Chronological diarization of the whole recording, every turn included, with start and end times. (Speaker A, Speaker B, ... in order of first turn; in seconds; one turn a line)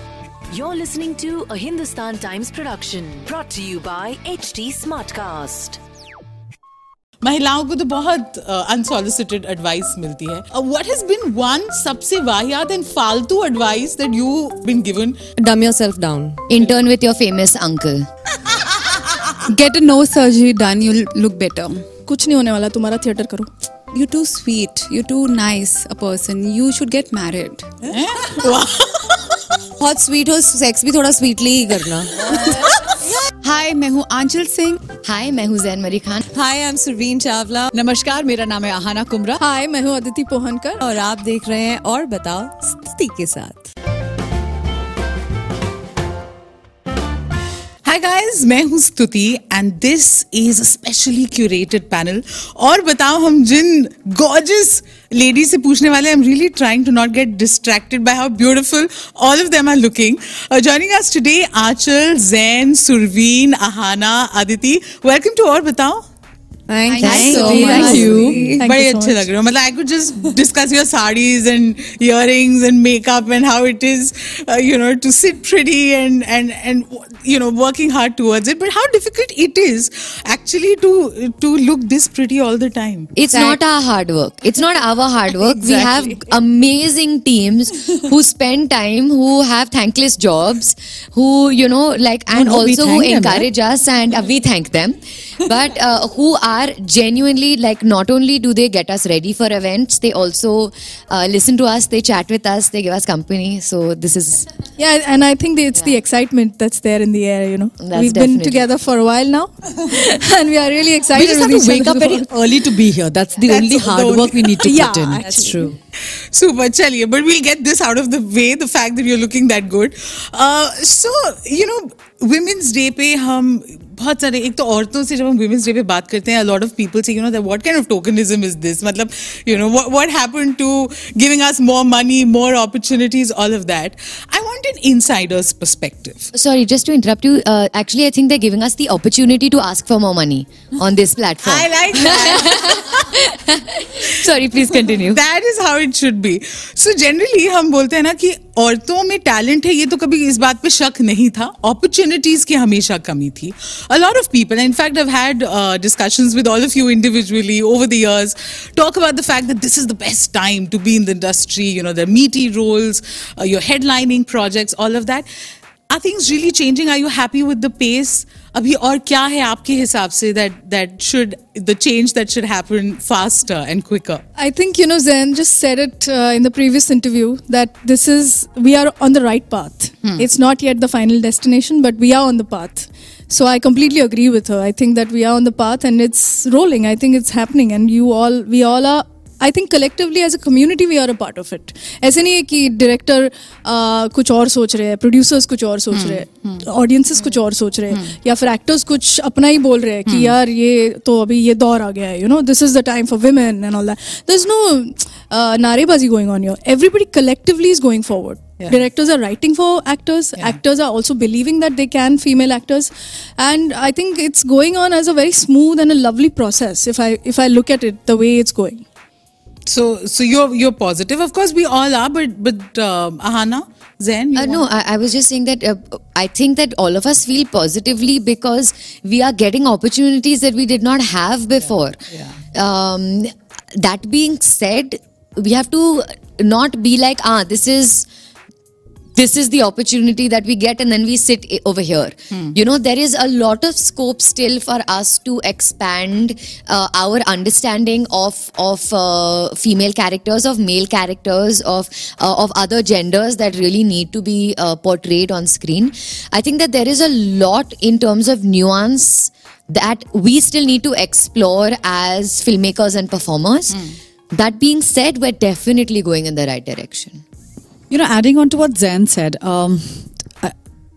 Speaker A: 0.5-5.8
Speaker B: 7.2-15.2
Speaker C: 15.4-16.4
Speaker D: 16.5-18.1
Speaker E: 19.4-21.8
Speaker F: 22.1-23.5
Speaker E: 23.9-27.7
Speaker B: 27.9-29.4
Speaker C: 29.8-32.6
Speaker E: 33.4-34.8
Speaker D: 35.0-36.2
Speaker C: 36.2-37.7
Speaker G: 37.7-39.4
Speaker F: 39.4-40.9
Speaker C: 40.8-43.7
Speaker B: 47.9-66.0
Speaker C: 66.7-68.6
Speaker E: 66.9-68.4
Speaker F: 67.0-69.3
Speaker B: 67.1-68.0
Speaker G: 67.2-68.5
Speaker B: 68.6-83.1
Speaker D: 83.2-104.5
Speaker C: 83.3-83.6
Speaker G: 92.3-93.5
Speaker F: 104.8-112.3
Speaker D: 107.8-108.7
Speaker G: 111.1-115.7
Speaker B: 113.5-114.8
Speaker F: 114.6-115.8
Speaker B: 116.3-136.3
Speaker D: 136.3-145.2
Speaker B: 141.4-142.9
Speaker B: 144.3-165.3
Speaker B: 165.9-174.2
Speaker F: 174.4-218.8
Speaker B: 200.1-200.3
Speaker B: 208.6-208.9
Speaker B: 219.7-224.7
Speaker D: 224.3-232.0
Speaker B: 232.1-232.4
Speaker D: 232.5-238.1
Speaker D: 239.2-267.2
Speaker G: 267.9-270.6